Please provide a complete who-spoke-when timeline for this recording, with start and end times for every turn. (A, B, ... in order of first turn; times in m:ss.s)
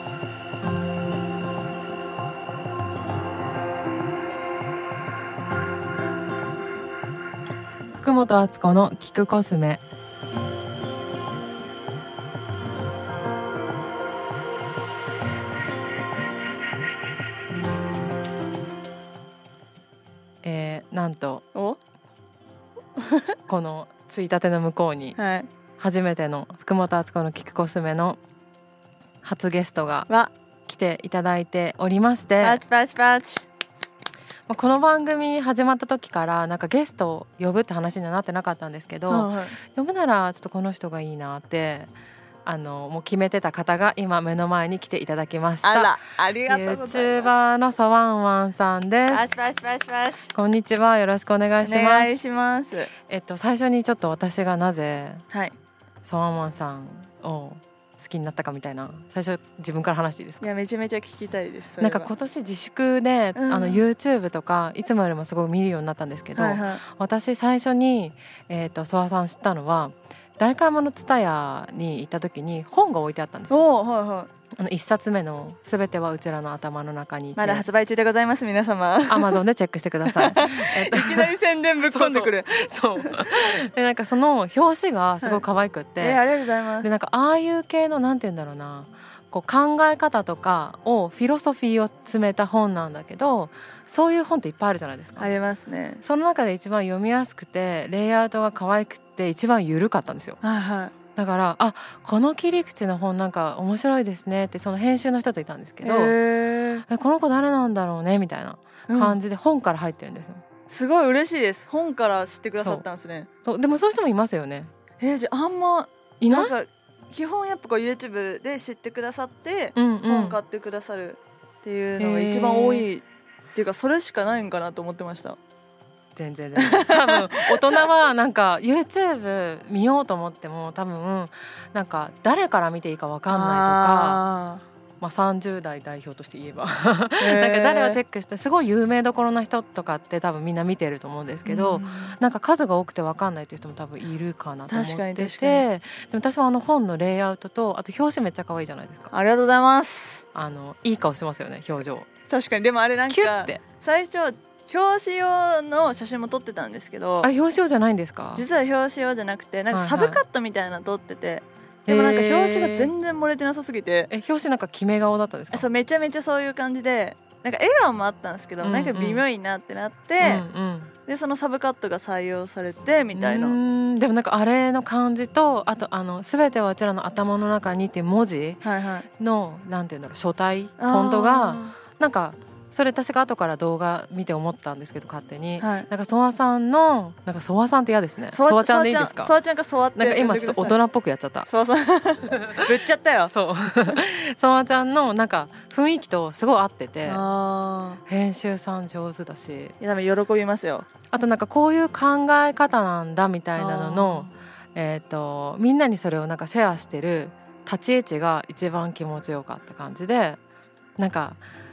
0:08.0-0:09.8 A
0:20.4-0:21.4 A
0:23.0-0:23.3 B
0:23.5-0:25.2 A
0:25.2-0:25.5 B
0:25.8-0:28.2 A
0:29.2-0:30.1 A
0:30.7-0:32.6 A
0:32.4-0:33.5 B
0:34.5-0:41.9 A
0:39.1-0:39.6 B
0:42.4-0:49.2 A
0:45.6-0:47.5 B
0:49.1-0:50.3 B
0:50.3-0:52.1 A
0:51.6-0:52.9 B
0:53.1-0:55.2 A
0:56.0-1:00.4 A
1:00.4-1:02.1 B
1:01.8-1:13.6 A
1:03.4-1:03.8 B
1:06.4-1:06.8 B
1:13.5-1:14.3 B
1:14.6-1:17.7 A
1:17.4-1:19.4 B
1:19.1-1:26.2 A
1:20.1-1:23.6 B
1:26.0-1:26.9 B
1:26.8-1:35.3 A
1:35.2-1:36.0 B
1:36.0-1:40.4 A
1:40.4-1:41.0 B
1:41.1-1:46.2 A
1:45.8-1:46.8 B
1:46.9-1:50.4 A
1:48.9-1:49.2 B
1:50.7-1:53.3 B
1:52.6-1:52.8 A
1:53.4-1:54.7 A
1:55.0-2:03.0 B
1:56.2-1:56.5 A
1:59.8-2:00.4 A
2:02.0-2:02.9 A
2:03.6-2:05.4 B
2:06.2-2:14.2 A
2:06.6-2:07.8 B
2:13.3-2:14.6 B
2:15.0-2:29.1 A
2:17.2-2:18.0 B
2:21.4-2:22.2 B
2:24.7-2:25.7 B
2:29.1-2:30.2 B
2:30.3-2:32.1 A
2:32.3-2:37.3 B
2:33.1-2:33.6 A
2:37.2-2:38.5 A
2:38.4-2:44.1 B
2:39.7-2:40.2 A
2:41.9-2:42.9 A
2:44.1-2:45.7 A
2:45.5-2:50.5 B
2:48.6-2:49.2 A
2:50.2-2:50.9 A
2:51.1-2:53.6 B
2:53.1-2:58.6 A
2:58.6-2:59.1 B
2:59.2-3:09.4 A
3:00.8-3:01.8 B
3:05.6-3:05.9 B
3:08.3-3:10.8 B
3:10.0-3:11.5 A
3:11.5-3:13.3 B
3:12.3-3:12.6 A
3:13.3-3:17.3 A
3:17.0-3:18.0 B
3:18.1-3:19.7 A
3:19.8-3:20.9 B
3:21.1-3:30.4 A
3:23.6-3:24.3 B
3:31.0-3:31.4 A